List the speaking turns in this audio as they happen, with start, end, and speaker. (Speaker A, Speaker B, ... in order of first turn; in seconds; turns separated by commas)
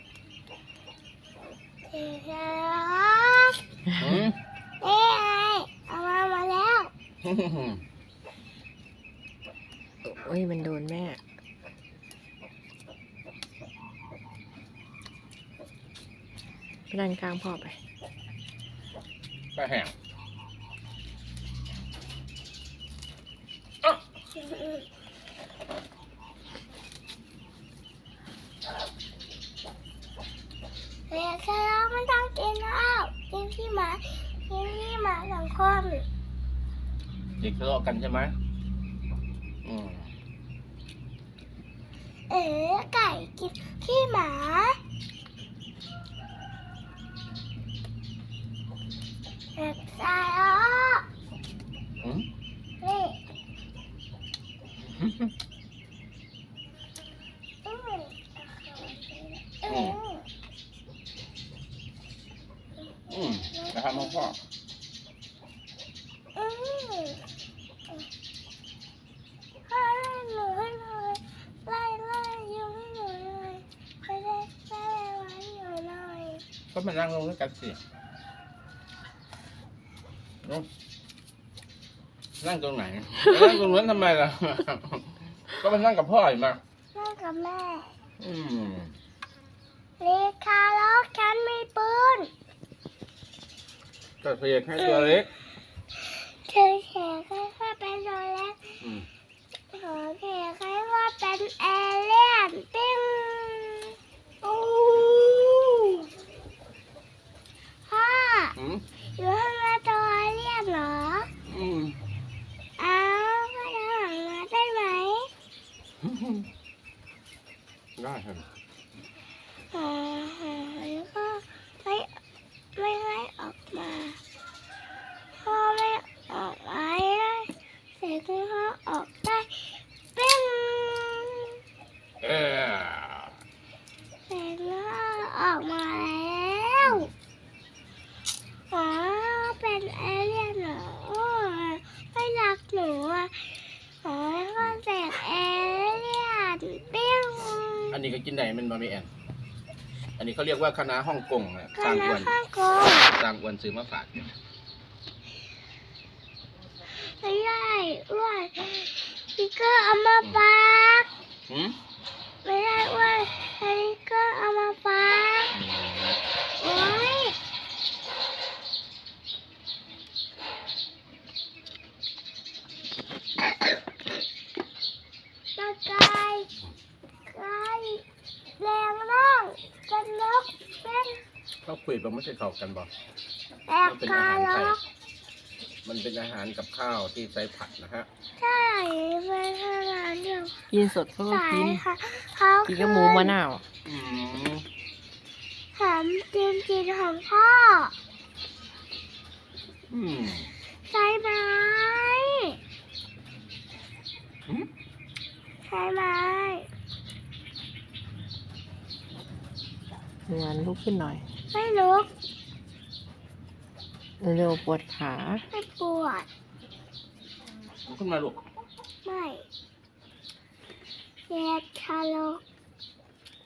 Speaker A: 1.9-3.6, Speaker B: 4.0-4.4, Speaker A: 4.8-6.9, Speaker B: 7.2-7.8, Speaker C: 10.1-11.2, Speaker C: 16.9-17.8, Speaker B: 19.6-19.9, Speaker A: 24.4-24.9, Speaker A: 31.1-36.1, Speaker B: 37.4-38.3, Speaker B: 39.6-40.1, Speaker A: 42.3-44.8, Speaker A: 49.6-51.0, Speaker B: 52.0-52.3, Speaker A: 52.8-53.2, Speaker B: 54.9-55.3, Speaker A: 57.6-60.2, Speaker B: 59.7-60.0, Speaker A: 63.1-64.3, Speaker B: 63.1-64.4, Speaker A: 66.3-67.3, Speaker A: 69.7-76.4, Speaker B: 76.7-77.8, Speaker B: 80.4-80.7, Speaker B: 82.4-86.6, Speaker A: 86.9-87.9, Speaker B: 88.2-88.9, Speaker A: 90.0-92.3, Speaker B: 94.2-95.3, Speaker A: 94.8-95.2, Speaker A: 96.0-98.6, Speaker B: 98.8-99.1, Speaker A: 99.7-104.0, Speaker B: 104.4-106.0, Speaker A: 107.9-108.6, Speaker B: 108.6-108.8, Speaker A: 109.2-111.3, Speaker B: 111.5-112.0, Speaker A: 112.8-115.3, Speaker B: 116.0-116.5, Speaker B: 118.0-118.4, Speaker A: 119.7-122.1, Speaker A: 122.8-124.2, Speaker A: 125.4-131.6, Speaker B: 132.2-133.3, Speaker A: 134.3-137.1, Speaker B: 136.8-137.1, Speaker A: 138.7-148.0, Speaker B: 147.9-149.1, Speaker B: 150.2-152.4, Speaker A: 151.8-153.1, Speaker B: 153.1-154.3, Speaker A: 157.0-161.1, Speaker B: 161.5-161.8, Speaker A: 162.4-165.5, Speaker B: 165.5-166.2, Speaker A: 166.6-167.4, Speaker A: 175.6-176.5, Speaker A: 177.3-178.0, Speaker A: 178.6-181.2, Speaker B: 181.7-182.9, Speaker A: 183.7-184.8, Speaker B: 183.8-184.8, Speaker B: 185.8-188.1, Speaker A: 188.4-190.7, Speaker C: 190.7-191.8, Speaker A: 191.2-193.4, Speaker C: 192.7-193.6, Speaker B: 193.8-194.7, Speaker A: 195.8-197.9, Speaker B: 199.9-200.5, Speaker A: 200.9-202.6, Speaker A: 205.7-206.7, Speaker C: 210.3-211.2, Speaker A: 211.5-212.1, Speaker C: 214.2-215.4, Speaker A: 215.5-216.3, Speaker B: 217.8-218.4, Speaker A: 219.1-219.5, Speaker A: 221.3-222.4